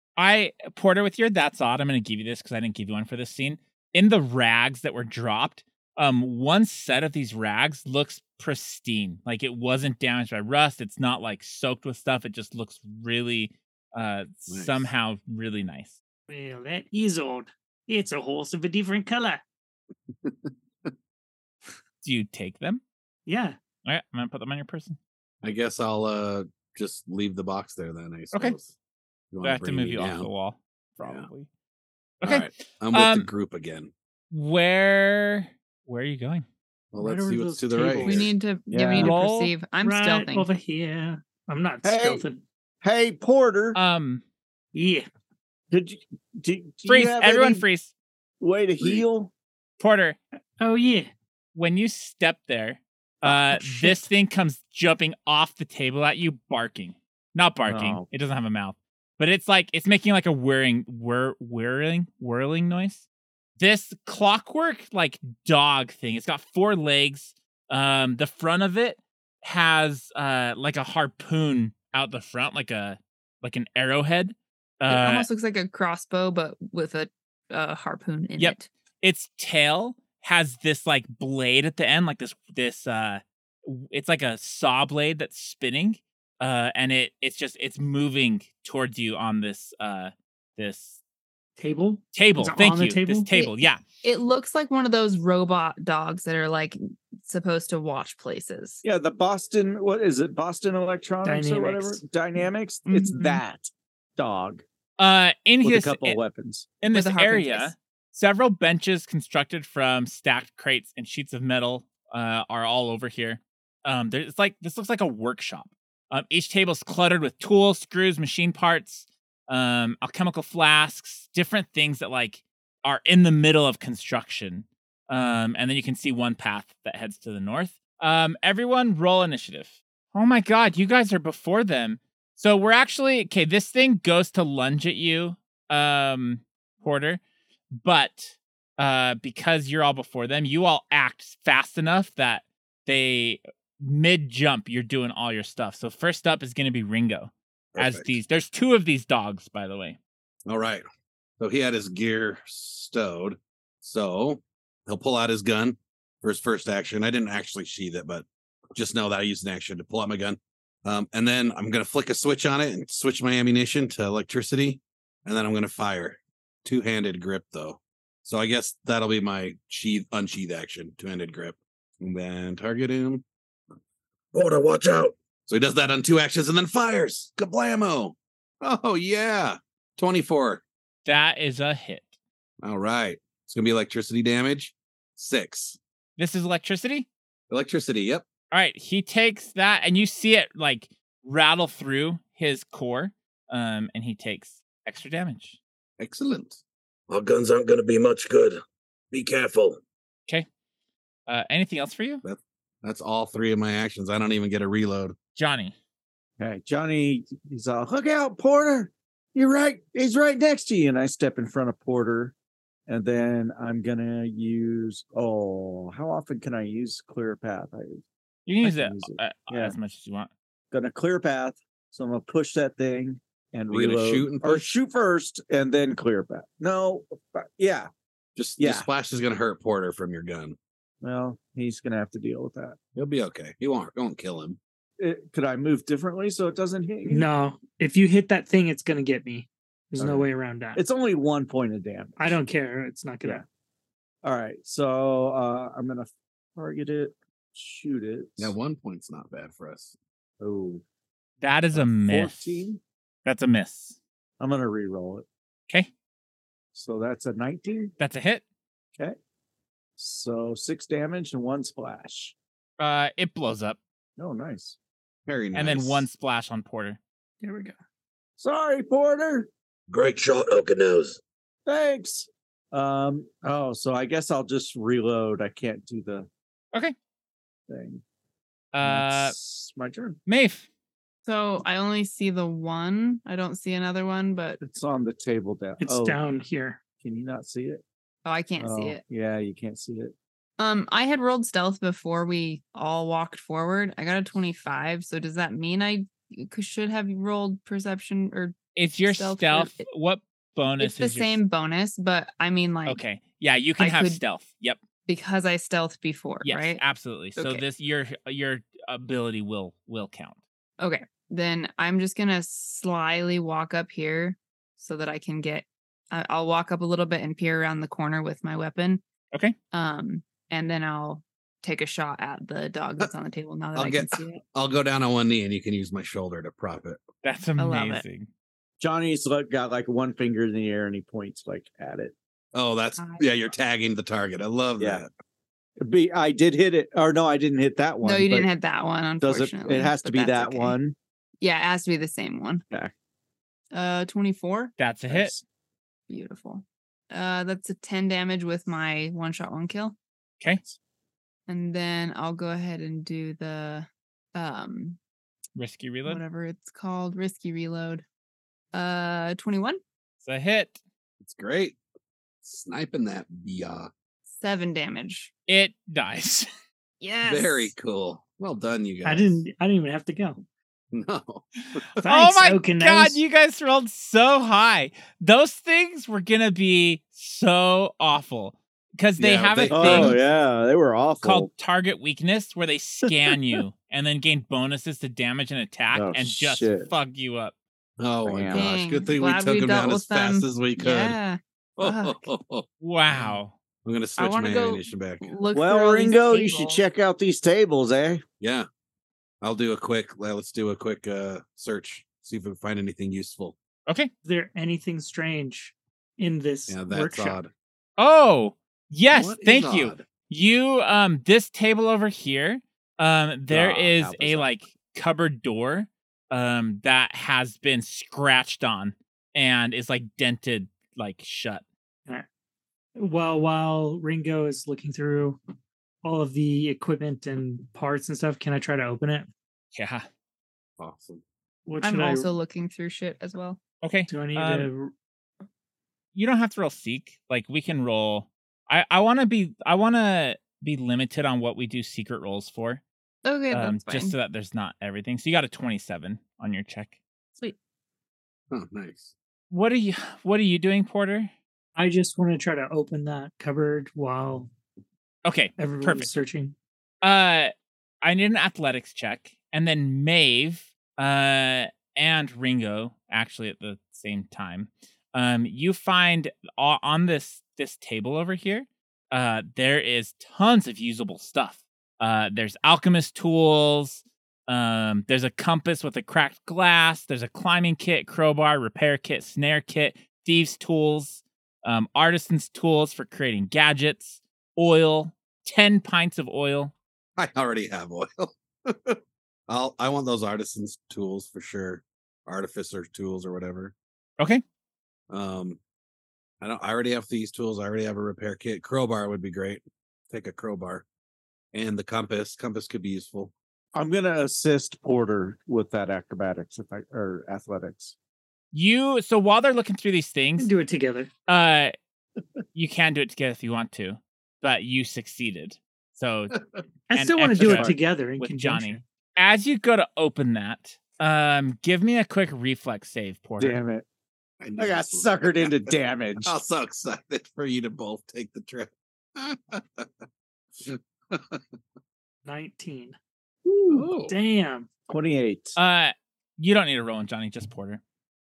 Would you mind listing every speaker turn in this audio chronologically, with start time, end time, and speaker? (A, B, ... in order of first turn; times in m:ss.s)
0:00.2-0:16.0 A
0:14.5-0:14.9 B
0:16.3-0:19.4 C
0:20.2-0:20.9 B
0:22.0-0:22.8 A
0:23.3-0:23.6 C
0:23.8-0:25.0 A
0:25.4-0:28.7 B
0:29.3-0:30.3 B
0:29.4-0:31.5 A
0:31.0-0:31.3 B
0:32.2-0:33.9 B
0:32.2-0:33.3 A
0:34.3-0:36.4 A
0:36.9-0:38.3 B
0:37.0-0:38.3 C
0:38.0-0:40.5 D
0:38.7-0:39.1 E
0:38.9-0:39.5 A
0:39.8-0:42.4 C
0:41.8-0:42.2 E
0:42.8-0:43.8 E
0:43.7-0:44.2 A
0:44.7-0:45.1 C
0:45.7-0:47.6 E
0:46.8-0:47.9 A
0:48.4-0:49.3 E
0:49.8-0:50.2 A
0:50.6-0:51.1 C
0:51.5-1:03.0 A
0:53.2-0:54.1 E
0:57.6-0:58.0 E
1:03.6-1:15.3 A
1:14.9-1:18.7 D
1:18.4-1:31.0 A
1:31.6-1:33.3 C
1:32.1-1:33.8 A
1:34.0-1:38.8 D
1:38.8-1:44.6 E
1:41.2-1:42.0 C
1:42.8-1:43.4 D
1:45.0-1:46.2 A
1:45.6-1:46.7 E
1:46.8-2:17.2 A
1:46.9-1:47.7 D
2:17.7-2:30.0 A
2:27.7-2:28.2 B
2:30.5-2:30.8 B
2:31.4-2:53.2 B
2:54.3-2:55.2 F
2:55.4-3:00.6 B
3:01.0-3:02.1 A
3:02.6-3:05.8 B
3:06.2-3:07.1 A
3:07.5-3:08.2 B
3:08.5-3:15.6 A
3:16.0-3:16.6 B
3:17.1-3:18.6 F
3:19.1-3:19.8 F
3:21.3-3:22.2 A
3:22.2-3:25.1 B
3:25.3-3:25.7 A
3:26.4-3:32.3 E
3:32.9-3:38.0 E
3:38.4-3:40.3 A
3:38.6-3:39.8 E
3:40.7-3:47.9 E
3:43.7-3:44.7 B
3:48.4-3:50.6 B
3:48.6-3:48.9 E
3:51.0-3:52.8 E
3:53.0-3:54.6 B
3:55.0-3:57.3 E
3:57.0-4:00.8 C
4:00.0-4:02.4 E
4:02.2-4:03.4 C
4:04.2-4:08.5 E
4:08.4-4:09.9 B
4:10.4-4:10.8 E
4:11.4-4:12.7 A
4:11.7-4:12.8 E
4:13.2-4:14.0 A
4:14.4-4:15.3 E
4:16.7-4:17.9 E
4:18.0-4:18.4 A
4:20.0-4:22.3 E
4:22.8-4:23.8 A
4:24.2-4:24.8 E
4:25.3-4:26.1 B
4:25.5-4:27.0 A
4:27.4-4:27.8 C
4:28.4-4:29.5 E
4:29.9-4:31.2 F
4:31.6-4:36.3 E
4:37.7-4:38.0 E
4:38.7-4:39.3 A
4:38.8-4:40.2 E
4:40.3-4:40.7 A
4:41.2-4:44.6 D
4:44.6-4:46.2 E
4:45.8-4:46.8 C
4:47.0-4:47.8 E
4:48.2-4:49.0 D
4:48.6-4:50.1 E
4:50.6-4:59.9 D
4:58.7-5:01.4 A
5:00.8-5:03.0 D
5:02.8-5:04.8 A
5:03.8-5:04.2 D
5:05.1-5:06.8 D
5:06.4-5:10.4 A
5:07.4-5:07.6 D
5:10.8-5:19.0 D
5:19.7-5:24.4 D
5:23.7-5:27.0 B
5:27.2-5:28.3 A
5:27.6-5:28.0 D
5:28.8-5:32.1 E
5:32.5-5:35.1 B
5:33.0-5:33.2 D
5:34.8-5:35.0 E
5:35.8-5:38.5 E
5:38.0-5:40.8 D
5:39.2-5:41.0 E
5:41.4-5:42.6 D
5:43.7-5:44.7 D
5:44.8-5:45.4 A
5:45.1-5:45.4 E
5:46.1-5:50.0 D
5:51.5-5:55.0 D
5:55.6-5:56.2 A
5:56.0-5:58.0 D
5:58.7-5:59.8 D
6:00.2-6:00.8 A
6:01.2-6:01.8 B
6:02.4-6:03.9 B
6:04.3-6:05.3 D
6:05.5-6:06.5 A
6:07.0-6:07.7 D
6:07.2-6:09.4 B
6:09.0-6:10.4 C
6:10.9-6:11.8 B
6:12.0-6:20.2 A
6:12.0-6:13.2 C
6:19.2-6:20.2 B
6:19.7-6:21.5 E
6:21.2-6:27.5 A
6:25.9-6:26.9 E
6:28.0-6:31.2 B
6:28.2-6:28.7 E
6:28.5-6:32.3 D
6:31.8-6:35.3 B
6:32.8-6:33.5 A
6:34.2-6:36.8 D
6:35.5-6:38.2 E
6:38.4-6:38.7 B
6:39.4-6:43.6 B
6:44.2-6:47.4 C
6:46.7-6:47.5 B
6:48.0-7:01.6 A
6:49.1-6:50.0 B
6:53.5-6:54.5 E
7:03.0-7:05.4 C
7:06.0-7:09.3 C
7:09.7-7:10.1 A
7:10.8-7:11.2 B
7:11.7-7:12.3 C
7:11.8-7:13.6 D
7:13.8-7:14.7 A
7:14.1-7:14.9 C
7:16.1-7:22.8 A
7:23.2-7:24.1 D
7:23.5-7:27.0 A
7:28.5-7:29.1 B
7:29.5-7:31.3 A
7:31.8-7:34.5 C
7:35.2-7:36.1 A
7:35.6-7:36.5 C
7:37.0-8:06.7 A
8:07.2-8:13.7 B
8:15.1-8:15.6 B
8:16.4-8:20.8 B
8:21.5-8:23.3 B
8:23.7-8:27.9 E
8:28.5-8:30.5 A
8:30.4-8:31.1 C
8:31.3-8:31.7 A
8:32.5-8:36.3 A
8:36.3-8:36.6 B
8:36.9-8:38.8 C
8:36.9-8:43.6 A
8:37.4-8:37.8 E
8:43.4-8:43.8 E
8:44.4-8:49.9 B
8:44.6-8:46.3 E
8:50.6-8:51.4 B
8:52.2-8:53.0 C
8:53.4-8:53.9 E
8:53.7-8:54.2 B
8:54.1-8:54.7 C
8:54.9-8:55.6 E
8:55.6-8:57.8 A